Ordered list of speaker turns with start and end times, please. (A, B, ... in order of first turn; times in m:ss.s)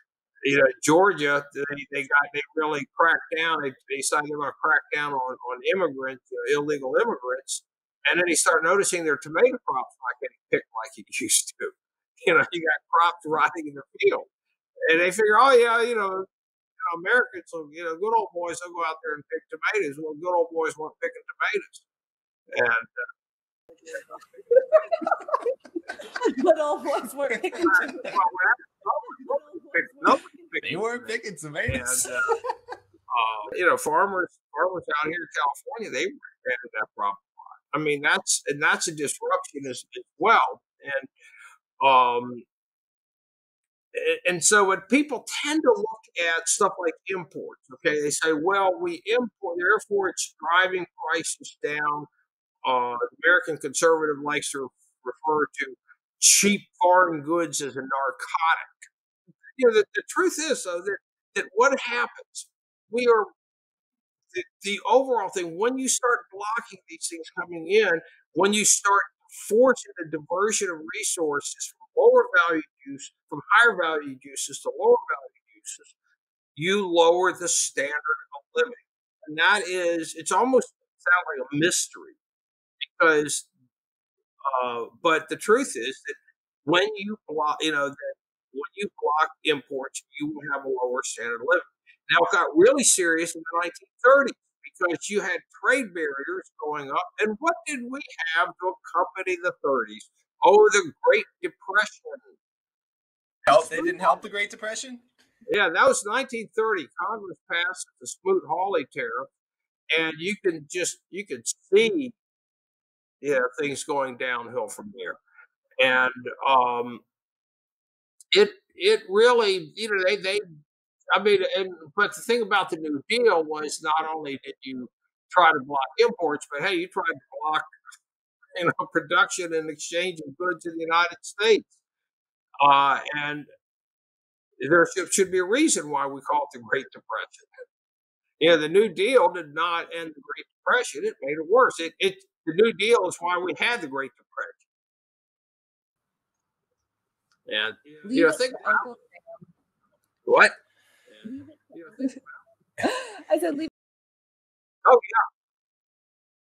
0:00.4-0:14.3 A
0:14.9-0:16.3 A
0:16.8-0:21.8 A
0:22.5-0:23.0 A
0:24.6-0:25.4 B
0:26.0-0:28.0 B
0:27.5-0:28.2 C
0:27.6-0:32.3 A
0:30.6-0:32.1 C
0:33.1-0:41.1 A
0:41.8-0:42.4 A
0:43.9-0:52.1 A
0:52.6-0:58.8 A
0:59.6-1:03.3 A
1:04.3-1:15.9 A
1:16.6-1:22.2 A
1:22.8-1:23.5 A
1:24.4-1:42.3 A
1:43.4-1:44.2 A
1:43.5-1:45.0 C
1:45.5-1:49.3 A
1:49.9-1:52.1 A
1:53.2-1:55.2 A
1:55.8-1:57.0 A
1:58.3-2:00.4 A
2:01.1-2:07.7 A
2:08.6-2:11.7 A
2:12.6-2:13.5 A
2:14.6-2:17.5 A
2:18.4-2:24.6 A
2:27.5-2:28.9 A
2:28.1-2:29.4 B
2:30.3-2:30.6 A
2:31.2-2:32.0 A
2:31.9-2:32.2 B
2:32.8-2:33.7 B
2:34.8-2:35.2 A